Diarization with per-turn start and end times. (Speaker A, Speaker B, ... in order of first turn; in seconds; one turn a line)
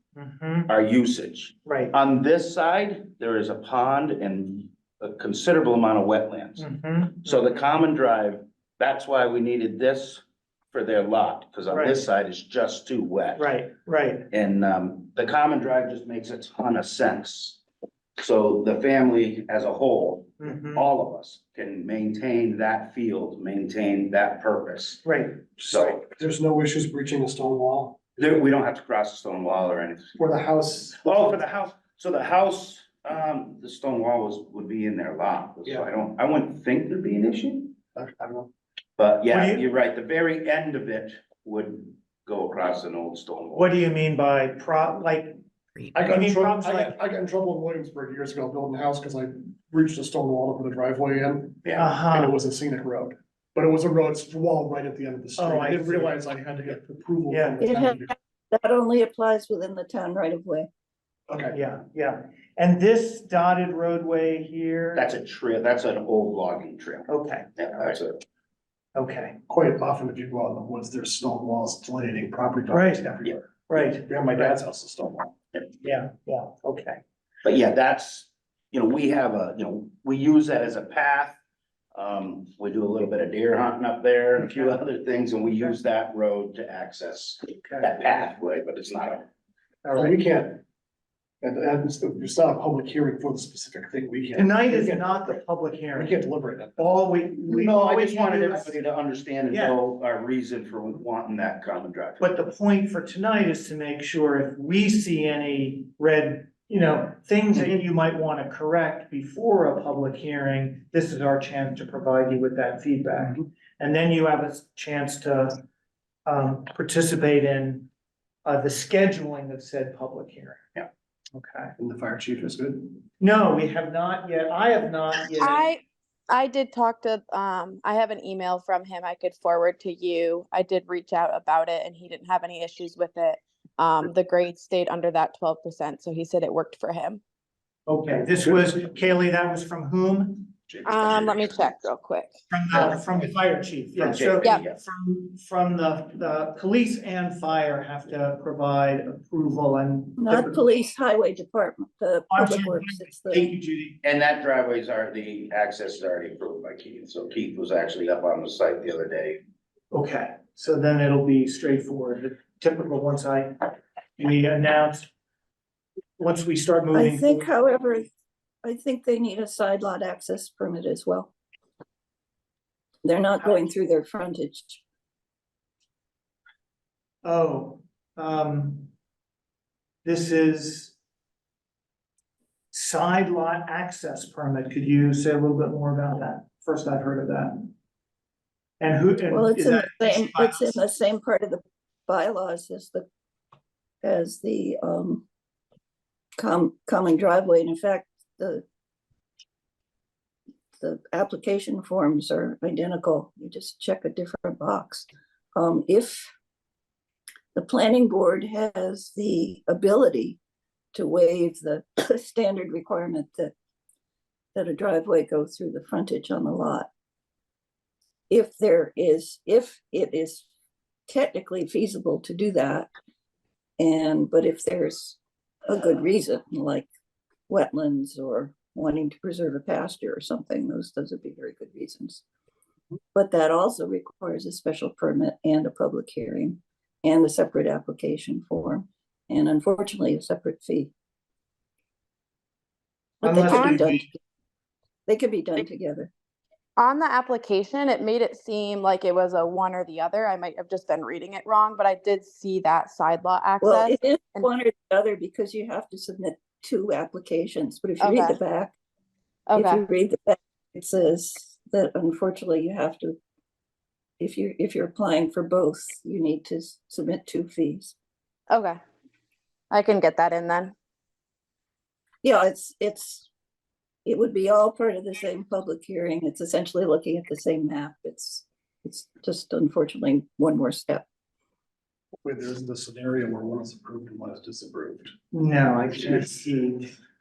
Speaker A: 0.2-0.7
Speaker B: 0.7-6.7
Speaker A: 1.7-1.9
Speaker A: 6.6-7.4
Speaker B: 7.2-13.5
Speaker A: 11.7-12.0
Speaker A: 13.4-14.3
Speaker B: 14.3-17.6
Speaker B: 18.2-26.0
Speaker A: 20.4-20.9
Speaker A: 25.0-25.9
Speaker C: 26.0-28.0
Speaker B: 28.2-30.1
Speaker C: 30.1-31.4
Speaker B: 31.0-37.8
Speaker C: 38.0-38.5
Speaker B: 39.0-43.7
Speaker A: 39.3-39.6
Speaker A: 43.5-47.0
Speaker C: 46.0-58.1
Speaker B: 51.6-51.9
Speaker A: 51.7-52.4
Speaker A: 55.4-56.2
Speaker A: 57.3-57.8
Speaker D: 57.6-60.7
Speaker C: 61.3-61.6
Speaker A: 61.5-65.0
Speaker B: 64.9-68.2
Speaker A: 67.1-67.5
Speaker A: 68.9-69.4
Speaker C: 69.5-73.5
Speaker A: 72.7-74.6
Speaker C: 74.0-75.3
Speaker A: 75.8-77.0
Speaker B: 77.4-81.4
Speaker B: 81.9-89.2
Speaker A: 87.6-87.9
Speaker A: 89.8-90.2
Speaker C: 90.0-90.6
Speaker C: 91.4-95.4
Speaker A: 94.3-96.1
Speaker C: 95.9-96.9
Speaker A: 96.8-98.7
Speaker B: 97.5-102.2
Speaker A: 99.5-99.8
Speaker A: 102.2-115.6
Speaker A: 116.2-117.9
Speaker A: 118.4-120.7
Speaker A: 121.4-121.7
Speaker C: 121.8-123.0
Speaker A: 123.2-125.7
Speaker E: 125.3-137.2
Speaker A: 137.9-140.6
Speaker B: 140.7-141.6
Speaker E: 140.8-142.4
Speaker A: 142.5-150.7
Speaker B: 144.0-144.8
Speaker D: 150.2-153.5
Speaker A: 152.3-153.9
Speaker B: 153.3-159.4
Speaker A: 159.9-165.1
Speaker A: 166.2-167.5
Speaker D: 166.9-168.1
Speaker D: 168.6-171.3
Speaker D: 173.0-174.8
Speaker A: 177.2-178.9
Speaker A: 180.1-181.0
Speaker A: 182.7-187.7
Speaker A: 188.8-190.8
Speaker D: 189.3-193.1
Speaker D: 194.0-195.2
Speaker D: 196.4-198.6
Speaker D: 200.8-206.3
Speaker D: 207.6-210.4
Speaker D: 210.9-213.5
Speaker D: 214.6-216.9
Speaker D: 218.3-220.5
Speaker D: 221.1-222.9
Speaker D: 223.8-226.9
Speaker D: 227.5-232.2
Speaker D: 233.2-240.9
Speaker D: 243.2-244.2
Speaker A: 243.2-244.1
Speaker E: 243.4-243.8
Speaker D: 245.1-246.1
Speaker E: 246.8-254.5
Speaker D: 253.6-258.8
Speaker E: 258.0-258.4
Speaker E: 259.5-259.8
Speaker D: 259.5-263.2
Speaker D: 264.2-267.9
Speaker E: 268.5-268.8
Speaker E: 269.7-270.7
Speaker D: 272.2-273.3
Speaker D: 274.1-281.1
Speaker C: 282.2-285.1
Speaker A: 285.3-286.9